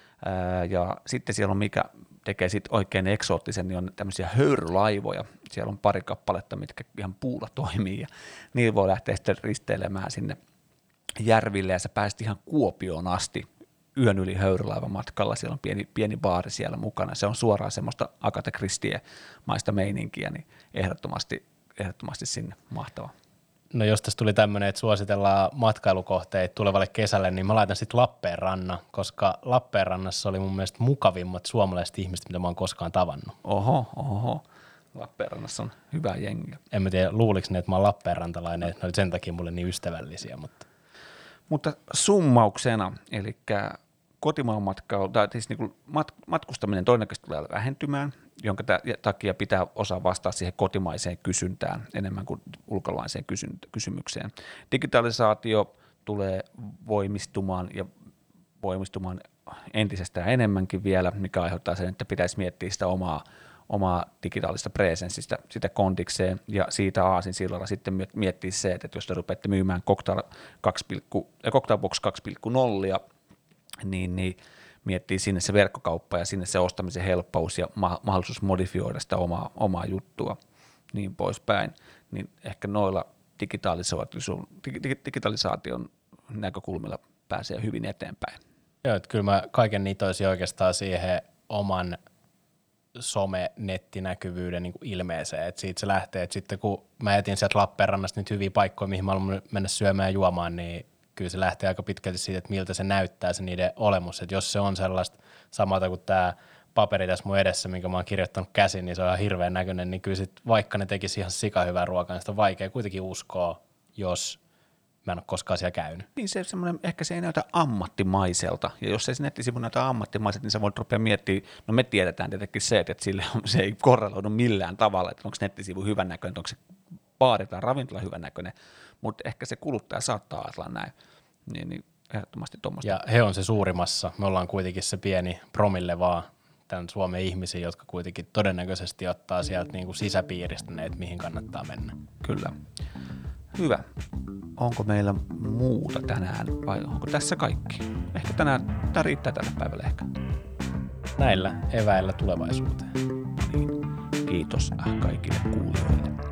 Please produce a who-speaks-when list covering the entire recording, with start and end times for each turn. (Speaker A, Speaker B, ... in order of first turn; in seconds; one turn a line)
Speaker A: 0.2-10.4
Speaker A: 11.2-23.1
Speaker B: 23.7-33.4
Speaker A: 33.4-36.6
Speaker B: 36.7-40.6
Speaker A: 41.5-57.9
Speaker A: 58.6-73.0
Speaker A: 73.8-80.4
Speaker A: 80.9-88.4
Speaker B: 88.8-92.0
Speaker B: 92.9-114.4
Speaker B: 115.0-116.1
Speaker A: 116.2-126.6
Speaker A: 127.2-130.9
Speaker A: 131.5-133.0
Speaker B: 132.8-142.0
Speaker A: 142.2-142.6
Speaker A: 143.5-143.9
Speaker A: 144.6-150.1
Speaker B: 151.2-152.9
Speaker A: 153.4-153.7
Speaker A: 154.2-156.2